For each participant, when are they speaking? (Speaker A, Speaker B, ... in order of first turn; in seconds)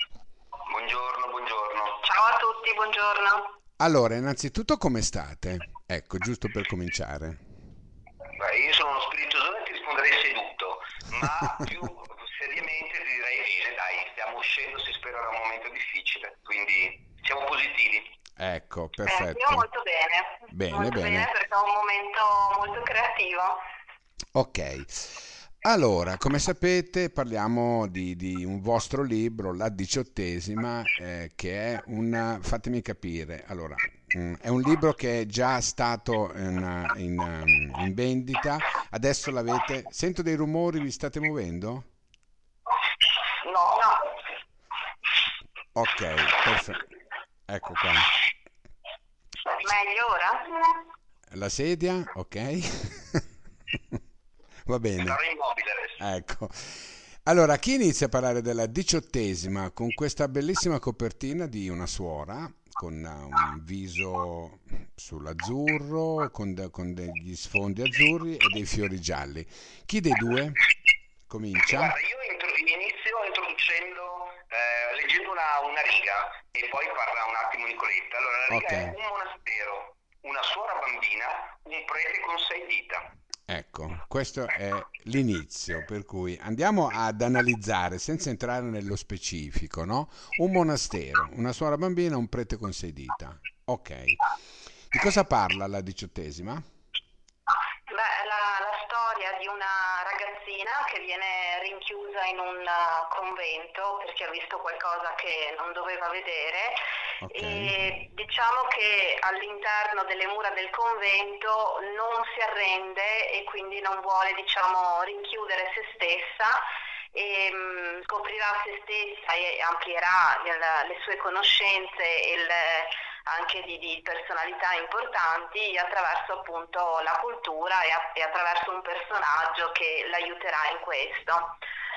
Speaker A: 0.7-2.0, 8.4-18.1, 43.4-44.0, 55.0-56.0, 71.6-83.1
Speaker B: 2.0-3.5, 19.0-23.6, 49.6-50.7, 97.9-106.8, 107.3-116.6, 117.1-131.5
Speaker C: 3.8-7.4, 18.4-19.6, 20.5-21.3, 24.3-41.9, 45.7-46.9, 47.5-48.1, 51.3-54.0, 54.6-55.2, 56.0-70.7, 71.3-71.9, 78.5-78.9, 83.5-94.2, 94.9-96.6, 107.2-107.8